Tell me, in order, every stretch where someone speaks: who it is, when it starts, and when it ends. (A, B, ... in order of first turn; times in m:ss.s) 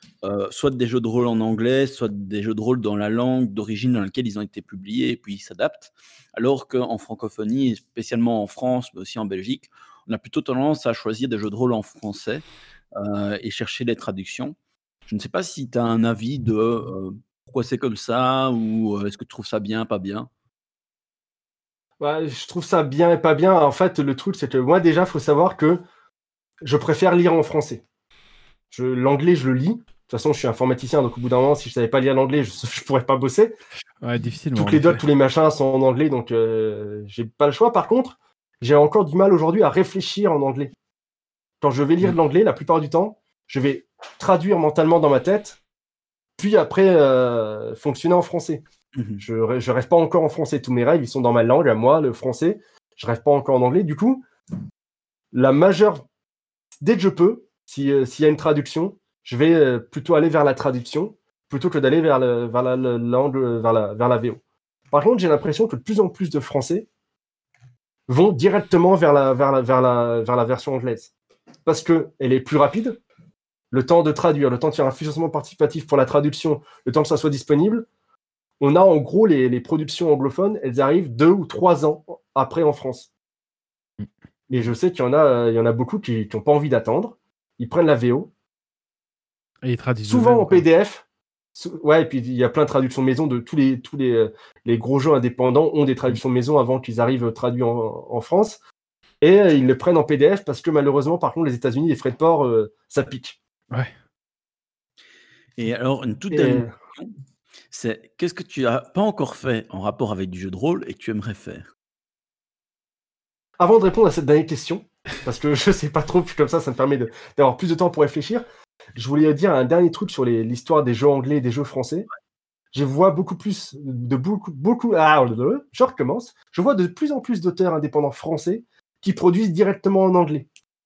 0:00.2-0:14.6 A
0:15.1-0:20.3 A
0:22.0-0:25.8 B
0:26.6-0:27.8 B
0:28.7-0:33.6 B
0:34.0-0:35.0 C
0:34.6-0:40.7 B
0:41.6-0:45.6 B
0:46.4-0:48.6 B
0:49.0-0:49.2 A
0:49.2-0:54.2 B
0:55.3-0:56.0 B
0:56.8-1:04.4 B
1:04.9-1:06.9 B
1:08.1-1:11.1 B
1:11.7-1:13.0 B
1:13.7-1:17.9 B
1:18.6-1:23.1 B
1:24.5-1:28.3 B
1:29.6-1:30.6 C
1:30.1-1:31.0 B
1:31.6-1:38.6 B
1:39.2-1:43.4 B
1:45.6-1:47.2 A
1:46.3-1:46.7 B
1:47.7-1:51.7 A
1:53.6-2:02.1 B
2:02.7-2:10.5 B